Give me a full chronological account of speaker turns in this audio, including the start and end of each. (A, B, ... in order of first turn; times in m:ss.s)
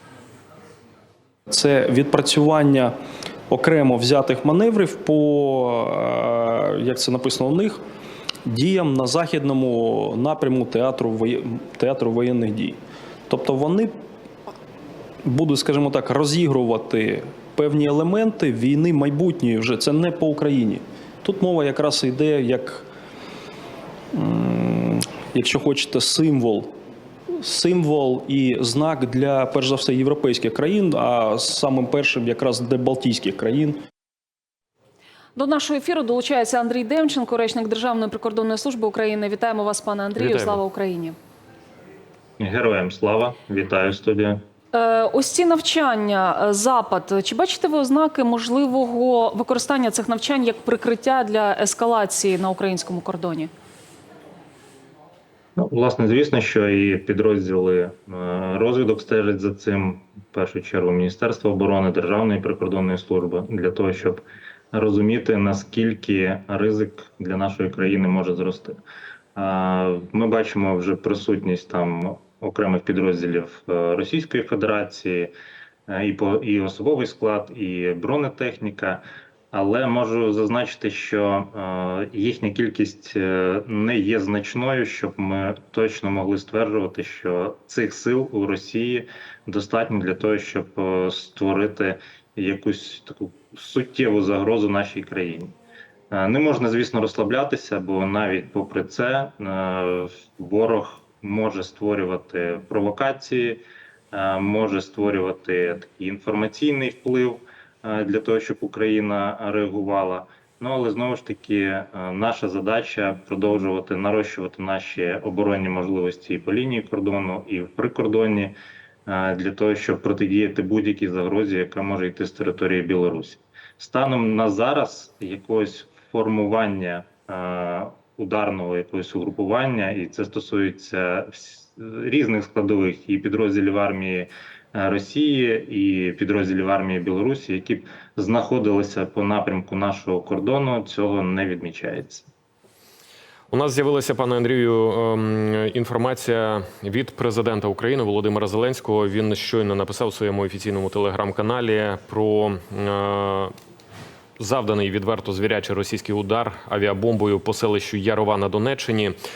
0:01.5-0:02.9 A
0:03.5-0:07.8 A
0:08.4-0:13.9 A
0:15.2-0:22.8 A
0:24.1-0:26.7 A
0:27.3-0:33.8 A
0:35.4-0:41.2 B
0:40.2-0:40.6 C
0:42.4-0:44.4 D
0:44.7-0:53.5 B
0:55.6-1:08.8 D
1:09.4-1:15.3 D
1:15.9-1:35.5 D
1:36.1-1:43.6 D
1:44.1-1:58.5 D
1:59.0-2:22.3 D
2:23.5-2:33.5 C
2:34.4-2:39.1 C